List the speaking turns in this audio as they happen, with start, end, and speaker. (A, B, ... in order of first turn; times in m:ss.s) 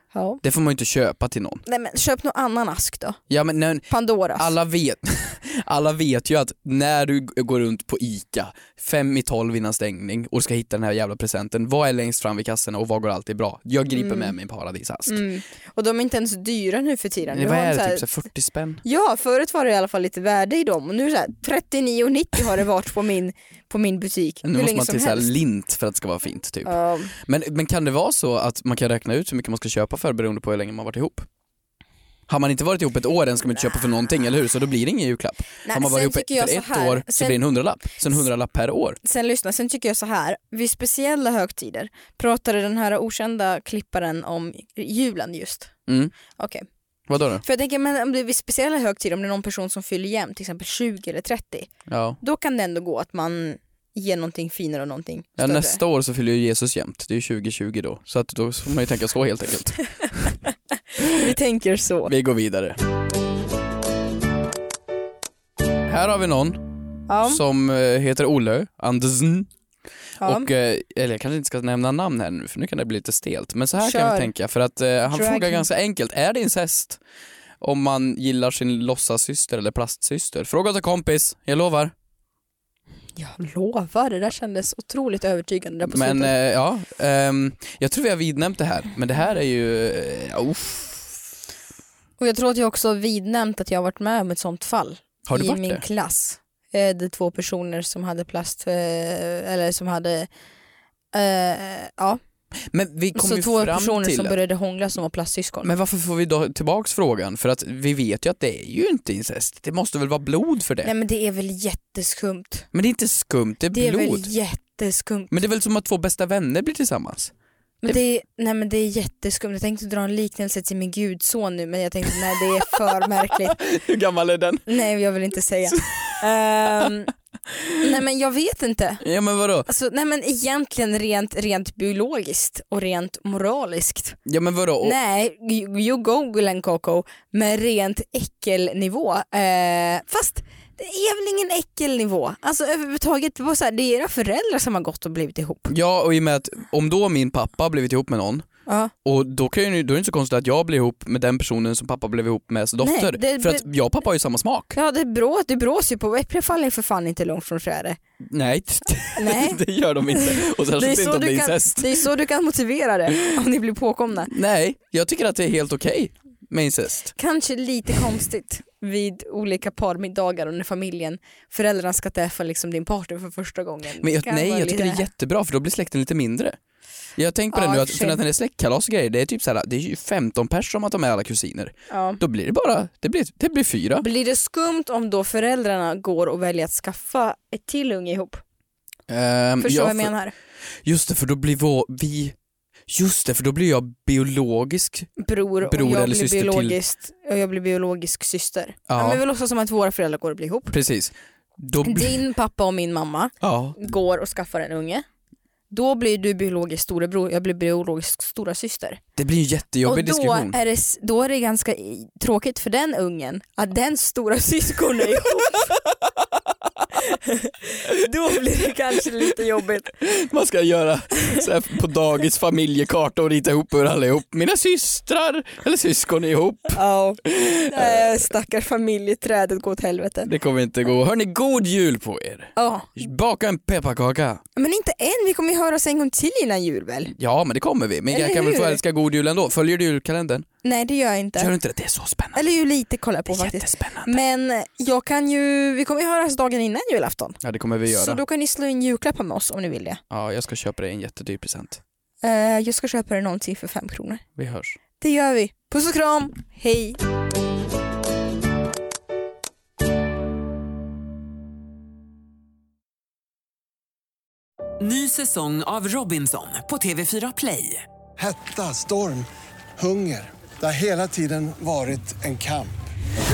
0:00.1-0:00.4 A
0:00.4-0:01.6 B
0:01.6-0:03.2 A
0:03.3-0:15.2 B
0:03.9-0:04.5 A
0:13.9-0:14.3 A
0:15.1-0:18.1 A
0:17.3-0:18.8 B
0:18.8-0:25.3 A
0:24.4-0:31.3 B
0:26.6-0:27.1 A
0:32.3-0:39.0 B
0:35.6-0:37.4 A
0:39.0-0:45.7 A
0:45.9-0:46.1 B
0:46.4-0:46.6 A
0:47.1-0:47.4 B
0:47.4-0:51.7 A
0:51.9-0:52.2 B
0:52.2-0:55.8 A
0:55.4-0:59.8 B
1:01.0-1:01.4 B
1:01.0-1:02.1 A
1:02.1-1:02.8 B
1:05.8-1:06.7 B
1:07.1-1:07.4 A
1:07.2-1:09.5 B
1:10.2-1:10.5 A
1:10.2-1:17.0 B
1:13.8-1:14.3 A
1:15.1-1:15.6 A
1:17.6-1:21.9 B
1:23.2-1:26.3 A
1:25.9-1:31.2 B
1:32.2-1:40.3 A
1:35.3-1:35.8 B
1:41.1-1:42.2 A
1:42.7-1:44.4 B
1:43.1-1:45.7 A
1:45.6-1:50.9 B
1:50.8-1:52.7 A
1:52.7-1:54.3 B
1:53.7-1:55.3 A
1:55.3-1:57.3 B
1:57.8-2:03.6 A
2:03.0-2:04.7 B
2:04.7-2:07.1 A
2:05.6-2:06.2 B
2:07.5-2:07.9 B
2:07.8-2:09.0 A
2:09.0-2:09.7 B
2:09.6-2:14.2 A
2:14.2-2:15.0 B
2:14.8-2:25.7 A
2:25.7-2:28.5 B
2:28.7-2:28.9 A
2:29.0-2:34.8 B
2:32.8-2:33.6 A
2:34.8-2:38.0 A
2:38.3-2:42.1 B
2:39.2-2:44.3 A
2:44.3-2:47.1 B
2:47.2-2:55.1 A
2:54.0-2:56.6 B
2:57.2-3:04.0 B
2:57.5-2:58.2 A
3:01.9-3:02.2 A
3:04.0-3:08.4 A
3:09.1-3:10.1 B
3:09.6-3:10.3 A
3:10.8-3:12.4 B
3:12.9-3:15.1 B
3:15.2-3:20.7 A
3:15.6-3:16.8 B
3:18.9-3:19.2 B
3:20.7-3:22.2 B
3:21.8-3:25.0 A
3:23.4-3:23.8 B
3:25.7-3:29.0 A
3:29.2-3:30.6 B
3:29.8-3:35.8 A
3:37.1-3:39.9 A
3:40.0-3:48.3 B
3:46.8-3:50.3 A
3:50.2-3:54.4 B
3:52.6-3:53.0 A
3:54.6-3:57.1 A
3:57.1-4:00.4 B
3:58.1-3:58.8 A
4:00.6-4:01.5 A
4:01.4-4:02.4 B
4:02.3-4:10.0 A
4:03.3-4:04.2 B
4:07.4-4:08.2 B
4:10.1-4:11.8 B
4:12.2-4:14.2 A
4:14.4-4:14.8 B
4:15.0-4:17.0 A
4:24.8-4:27.8 C
4:28.2-4:32.7 D